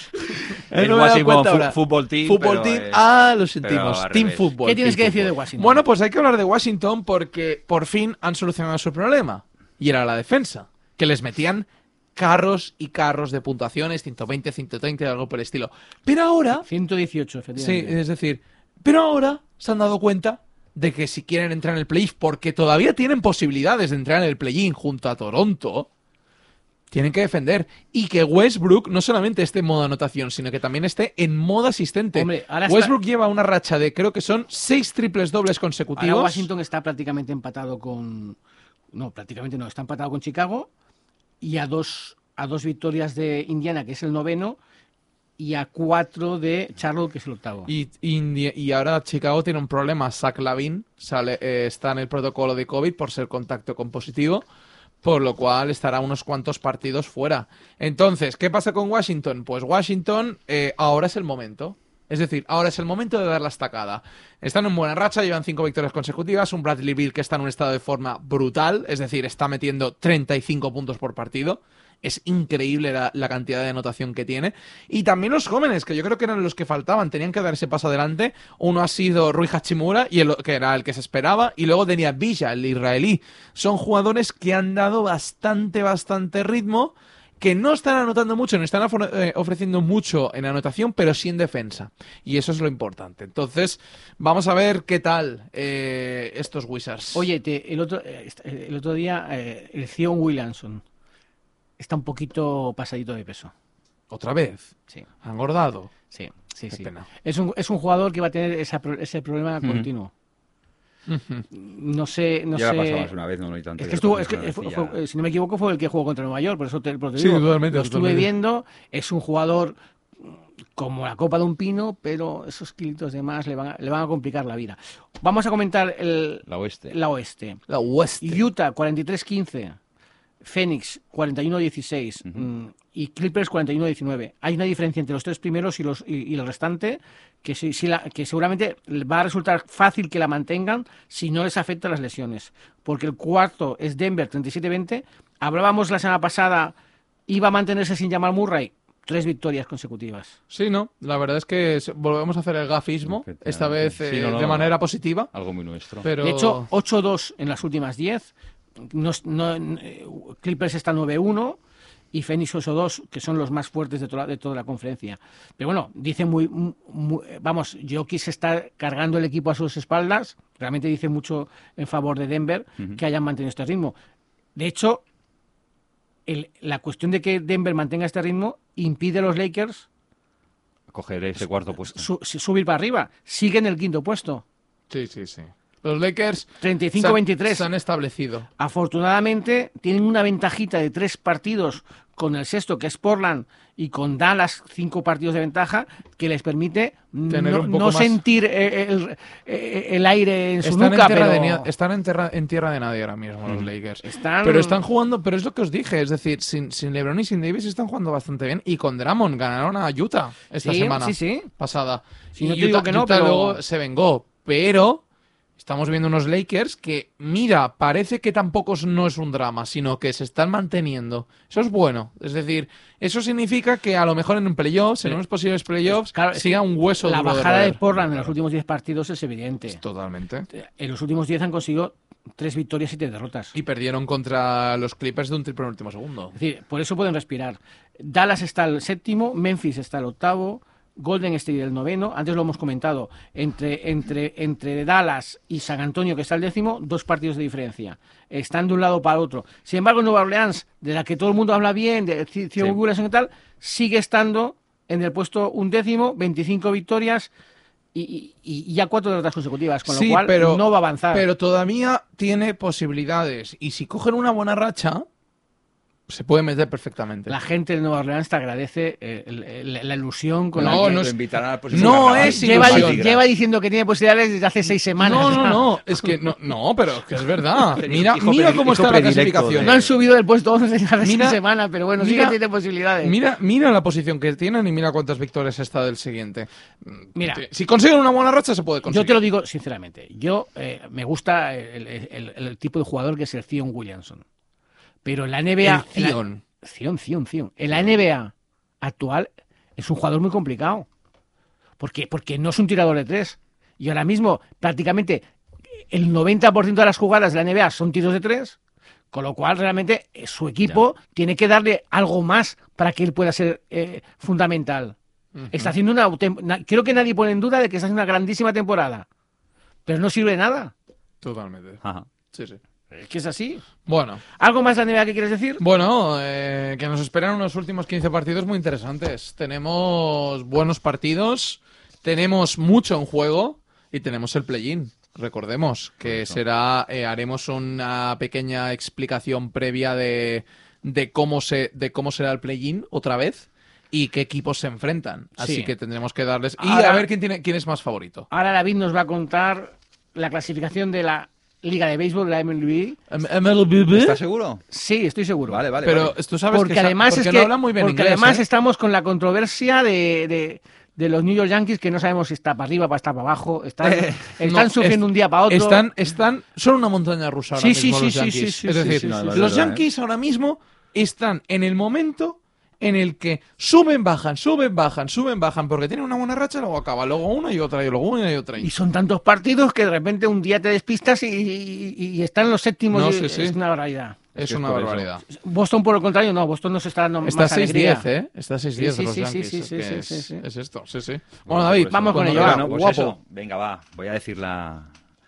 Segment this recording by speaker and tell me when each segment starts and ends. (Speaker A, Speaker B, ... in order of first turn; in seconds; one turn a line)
Speaker A: 0.3-16.6
Speaker B: 0.5-3.0
Speaker B: 3.6-4.5
Speaker C: 4.6-5.8
Speaker C: 16.5-18.0
Speaker A: 17.6-25.9
Speaker A: 26.9-36.5
Speaker C: 32.1-32.9
Speaker C: 36.0-38.4
Speaker C: 38.9-40.7
Speaker C: 41.4-44.6
Speaker C: 45.4-47.7
Speaker A: 47.7-54.4
Speaker A: 55.0-97.3
Speaker C: 97.1-100.8
Speaker C: 101.8-103.5
Speaker A: 104.1-105.9
Speaker C: 106.1-110.1
Speaker A: 106.7-107.0
Speaker B: 109.6-109.9
Speaker A: 111.1-111.5
Speaker C: 111.5-113.1
Speaker B: 112.5-115.0
Speaker C: 113.8-127.6
Speaker A: 117.2-118.3
Speaker B: 126.5-126.9
Speaker A: 127.7-128.4
Speaker C: 128.2-129.8
Speaker C: 130.4-146.7
Speaker C: 147.3-150.3
Speaker A: 150.5-155.3
Speaker B: 153.1-154.7
Speaker B: 155.3-156.1
Speaker A: 156.0-156.7
Speaker C: 156.2-158.3
Speaker C: 158.8-161.6
Speaker C: 162.1-173.9
Speaker C: 174.6-175.0
Speaker C: 176.3-179.8
Speaker B: 180.9-182.1
Speaker C: 181.8-184.4
Speaker A: 184.9-188.5
Speaker C: 186.6-187.7
Speaker C: 188.6-201.7
Speaker A: 197.3-198.2
Speaker A: 200.6-215.0
Speaker C: 204.0-204.8
Speaker C: 210.6-211.5
Speaker C: 212.3-213.6
Speaker A: 215.6-227.8
Speaker C: 225.9-229.8
Speaker A: 229.7-230.5
Speaker C: 230.5-233.5
Speaker A: 233.5-236.3
Speaker C: 236.3-257.3
Speaker C: 257.9-261.2
Speaker A: 259.9-265.1
Speaker A: 266.1-267.3
Speaker C: 267.3-271.1
Speaker B: 270.6-273.2
Speaker A: 270.6-271.1
Speaker A: 271.7-273.0
Speaker C: 271.7-276.1
Speaker A: 275.0-279.7
Speaker B: 277.7-279.9
Speaker C: 279.6-283.2
Speaker A: 281.0-281.4
Speaker A: 282.0-282.4
Speaker A: 283.0-289.2
Speaker C: 287.1-287.4
Speaker C: 288.9-294.2
Speaker C: 295.0-300.9
Speaker A: 295.6-296.4
Speaker C: 301.8-305.2
Speaker C: 305.9-308.6
Speaker C: 309.1-314.9
Speaker A: 315.4-315.7
Speaker C: 315.5-319.1
Speaker C: 319.9-320.7
Speaker A: 321.2-322.6
Speaker B: 321.8-322.1
Speaker C: 322.9-323.6
Speaker A: 323.9-324.2
Speaker C: 324.4-325.6
Speaker A: 325.6-348.3
Speaker B: 336.0-336.4
Speaker C: 345.4-345.7
Speaker C: 346.6-347.1
Speaker C: 348.3-353.0
Speaker A: 353.1-354.2
Speaker B: 353.9-354.6
Speaker C: 354.7-355.6
Speaker B: 355.5-356.1
Speaker A: 355.8-358.4
Speaker C: 356.5-365.8
Speaker B: 363.8-364.3
Speaker A: 364.4-378.7
Speaker C: 367.5-369.5
Speaker B: 368.7-369.8
Speaker C: 378.6-384.2
Speaker A: 382.9-383.6
Speaker A: 384.3-385.2
Speaker B: 384.4-385.1
Speaker C: 385.2-388.1
Speaker A: 387.2-393.1
Speaker C: 388.8-390.4
Speaker B: 391.4-394.9
Speaker C: 391.9-392.7